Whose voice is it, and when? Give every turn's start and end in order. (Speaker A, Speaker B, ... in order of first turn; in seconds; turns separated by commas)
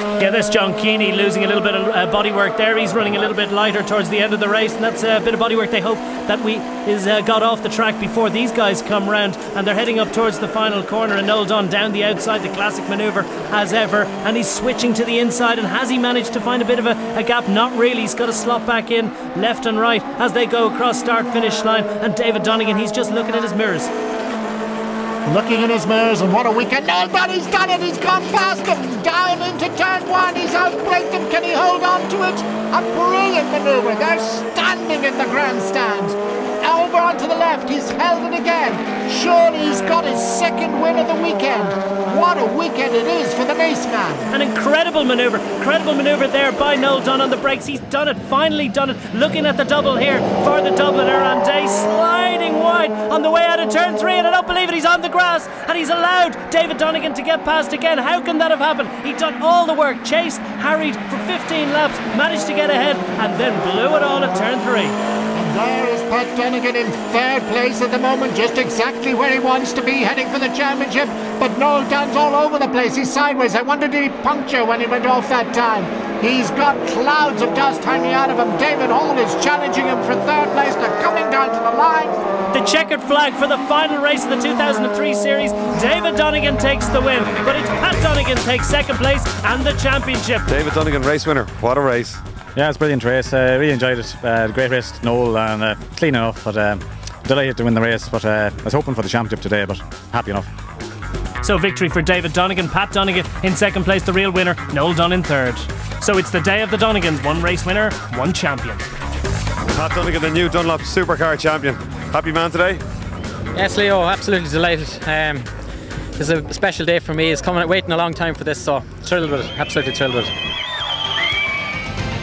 Speaker A: 0.2-23.9, Speaker B: 25.3-44.3, Speaker A: 44.3-65.0, Speaker B: 65.3-82.2, Speaker A: 82.5-90.4, Speaker C: 90.5-92.2, Speaker D: 92.5-100.5, Speaker A: 101.4-108.9, Speaker C: 109.8-112.8, Speaker E: 113.5-115.5, Speaker E: 116.2-120.3